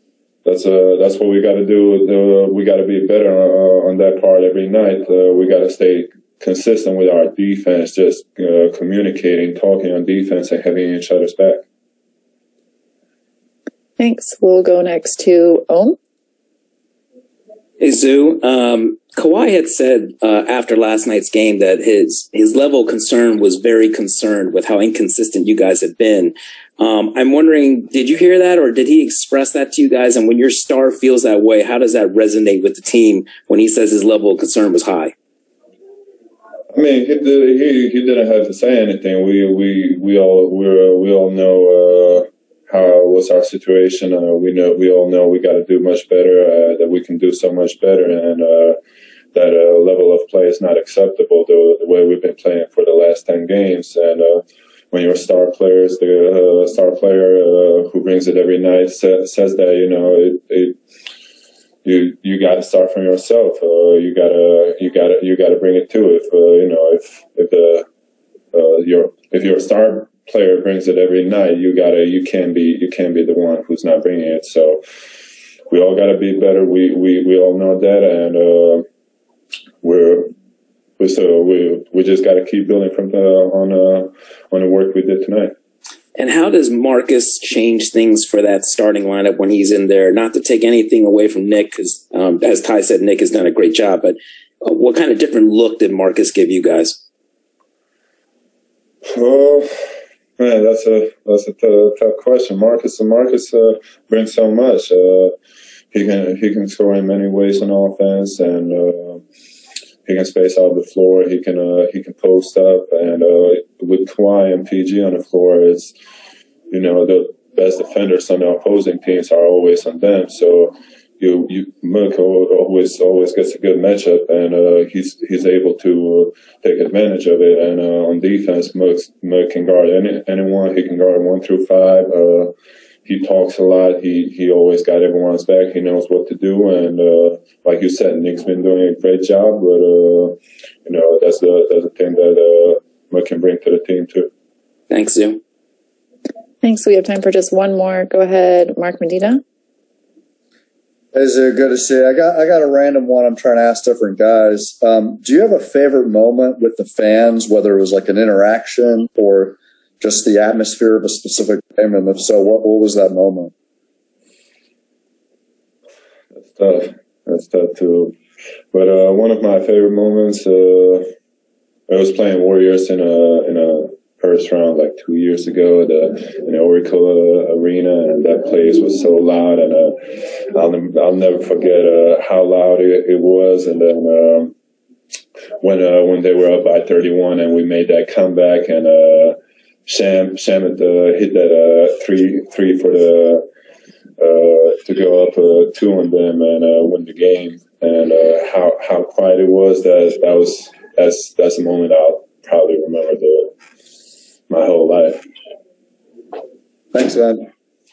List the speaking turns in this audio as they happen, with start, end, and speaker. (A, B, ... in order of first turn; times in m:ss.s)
0:00.4-0:11.6 A
0:14.0-0:16.0 B
0:17.8-0:35.1 C
0:36.7-0:48.8 A
0:49.3-1:00.8 A
1:01.8-1:07.9 A
1:08.5-1:14.8 A
1:15.7-1:18.8 A
1:19.8-1:20.3 A
1:21.0-1:25.5 A
1:26.2-1:37.0 C
1:39.1-1:39.8 A
1:40.4-1:45.3 A
1:45.9-1:49.2 A
1:50.1-1:55.9 A
1:56.7-2:12.5 A
2:13.0-2:24.3 A
2:24.9-2:25.4 C
2:26.6-2:29.4 B
2:31.1-2:43.5 D
2:46.4-2:48.2 A
2:48.7-2:51.1 A
2:51.9-3:04.5 A
3:05.6-3:13.4 A
3:14.2-3:23.5 A
3:24.5-3:25.2 A
3:26.9-3:27.5 D